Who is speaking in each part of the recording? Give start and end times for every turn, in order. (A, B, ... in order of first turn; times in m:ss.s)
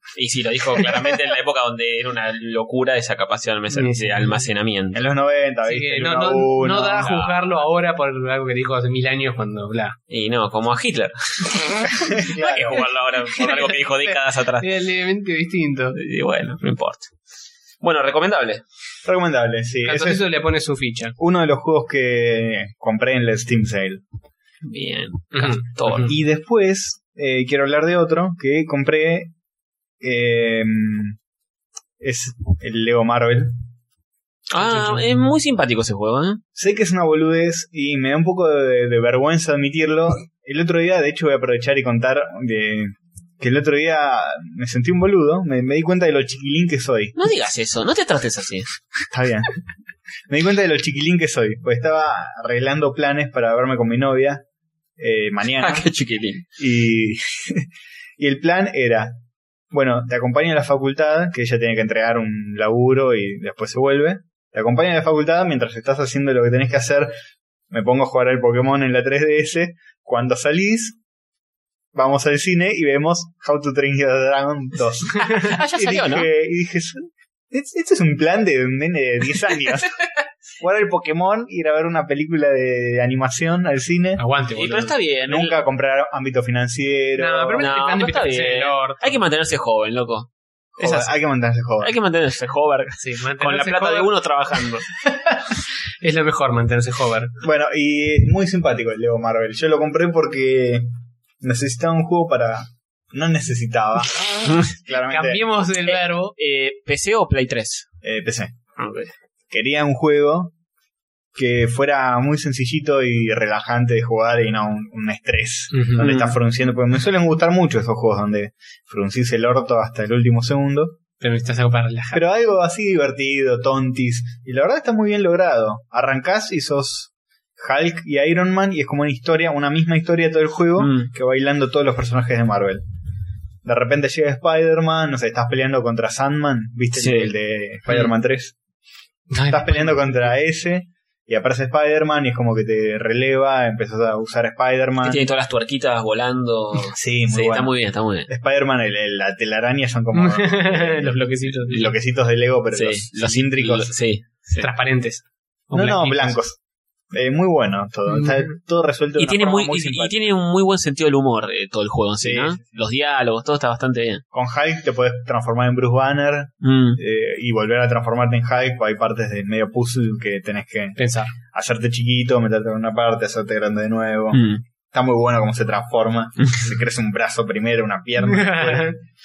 0:00.1-0:05.0 A
0:03.7-0:04.4 B
0:04.9-0:07.2 C
0:05.6-0:10.0 B
0:07.0-0:07.4 A
0:10.1-0:14.7 A
0:11.9-0:12.8 C
0:13.2-0:16.0 B
0:15.9-0:17.1 A
0:17.8-0:18.6 A
0:19.0-0:20.2 C
0:19.8-0:21.2 B
0:21.2-0:24.0 C
0:24.6-0:26.1 A
0:25.3-0:26.1 B
0:25.9-0:29.3 C
0:30.0-0:31.2 C
0:32.0-0:33.5 C
0:34.5-0:36.4 A
0:34.6-0:35.1 B
0:36.6-0:47.2 C
0:47.2-0:48.7 A
0:49.1-0:49.5 C
0:50.3-0:54.4 C
0:55.0-0:55.9 C
0:55.6-0:56.4 A
0:56.6-0:59.2 C
0:59.7-1:07.1 C
1:07.7-1:11.0 C
1:11.9-1:20.0 C
1:15.2-1:16.3 A
1:20.6-1:24.2 C
1:24.2-1:25.0 B
1:24.5-1:25.6 A
1:25.2-1:27.7 C
1:27.2-1:29.1 B
1:27.6-1:31.1 A
1:30.8-1:31.9 C
1:31.8-1:34.8 A
1:33.0-1:34.1 B
1:35.0-1:37.3 B
1:37.4-1:40.9 C
1:41.4-1:45.4 C
1:44.5-1:44.7 A
1:45.0-1:46.3 B
1:45.9-1:47.9 A
1:48.0-1:48.6 C
1:48.8-1:49.1 A
1:49.5-1:50.5 C
1:51.3-2:01.0 C
1:55.7-1:56.2 B
1:56.0-1:56.3 A
2:01.2-2:02.2 B
2:02.1-2:12.8 C
2:10.8-2:11.1 A
2:13.6-2:18.6 C
2:17.0-2:17.3 A
2:19.3-2:20.2 B
2:19.5-2:25.2 C
2:25.0-2:28.3 A
2:26.9-2:27.7 C
2:28.3-2:33.9 C
2:30.1-2:31.9 B
2:32.7-2:34.7 A
2:34.6-2:36.4 B
2:35.7-2:36.6 C
2:37.1-2:40.2 C
2:38.1-2:38.5 B
2:39.2-2:44.2 A
2:42.2-2:42.6 C
2:44.3-2:59.0 C
2:46.6-2:47.0 A
2:51.0-2:51.3 B
2:54.3-2:54.6 A
2:58.2-2:59.0 B